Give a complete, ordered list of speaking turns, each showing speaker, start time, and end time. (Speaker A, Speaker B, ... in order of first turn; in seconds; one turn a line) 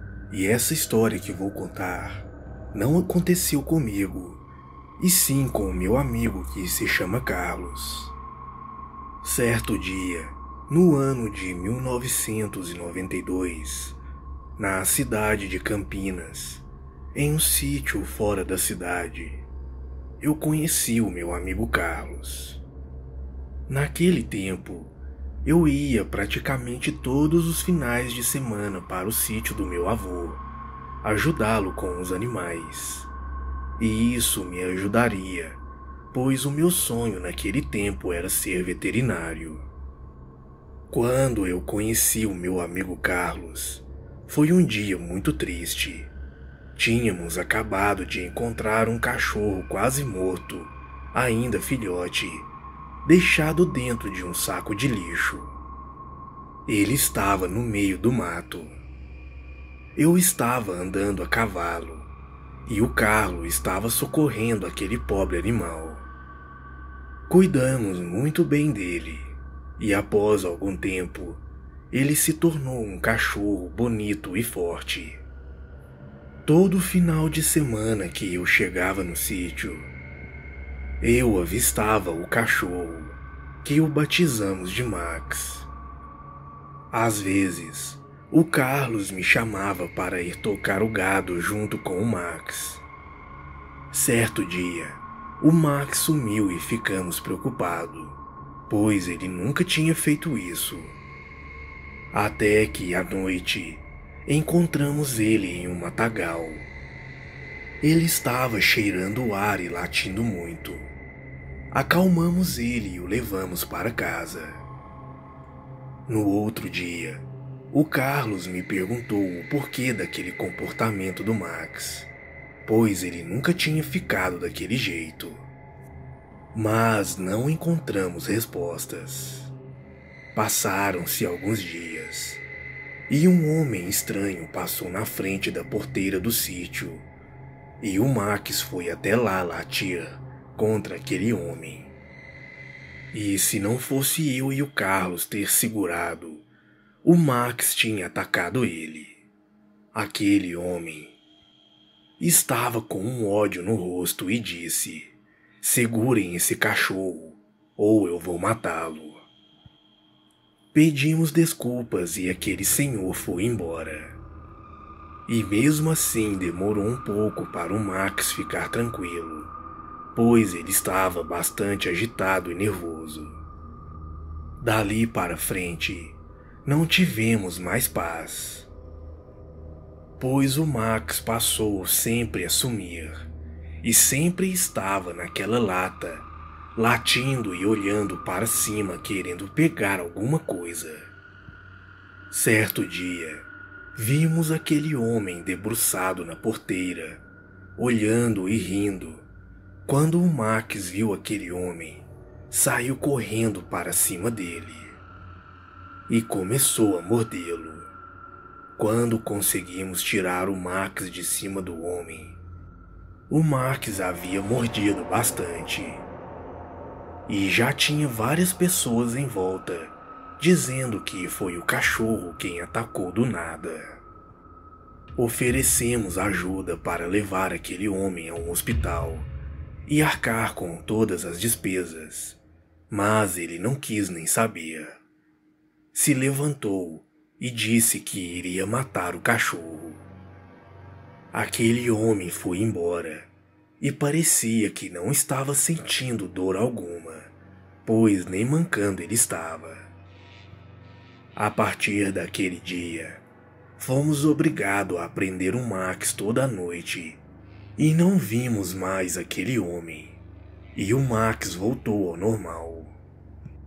Speaker A: 0.3-4.4
Speaker A: 5.0-8.2
Speaker A: 9.2-14.0
Speaker A: 14.6-19.5
Speaker A: 20.2-22.6
Speaker A: 23.7-30.5
Speaker A: 31.0-33.1
Speaker A: 33.8-39.7
Speaker A: 40.9-46.1
Speaker A: 46.8-52.5
Speaker A: 53.0-55.5
Speaker A: 56.7-58.7
Speaker A: 60.0-62.1
Speaker A: 62.6-66.1
Speaker A: 67.3-75.2
Speaker A: 76.5-79.9
Speaker A: 81.0-85.7
Speaker A: 86.9-92.8
Speaker A: 93.9-101.0
Speaker A: 102.1-106.7
Speaker A: 107.8-110.9
Speaker A: 111.7-114.6
Speaker A: 116.1-122.1
Speaker A: 122.7-125.5
Speaker A: 126.5-129.5
Speaker A: 130.3-132.4
Speaker A: 133.1-137.1
Speaker A: 137.8-141.9
Speaker A: 143.1-146.5
Speaker A: 147.0-149.2
Speaker A: 149.9-151.2
Speaker A: 152.2-159.2
Speaker A: 160.7-164.2
Speaker A: 165.3-169.5
Speaker A: 170.1-173.4
Speaker A: 174.6-178.7
Speaker A: 180.2-183.3
Speaker A: 183.8-191.1
Speaker A: 192.3-197.2
Speaker A: 197.8-199.3
Speaker A: 199.9-205.0
Speaker A: 206.1-207.9
Speaker A: 208.8-212.4
Speaker A: 213.3-216.1
Speaker A: 217.3-224.0
Speaker A: 225.2-229.3
Speaker A: 229.8-232.4
Speaker A: 232.9-235.0
Speaker A: 235.9-240.1
Speaker A: 241.3-247.3
Speaker A: 247.8-249.9
Speaker A: 251.4-253.2
Speaker A: 253.8-257.2
Speaker A: 257.8-260.2
Speaker A: 260.7-263.0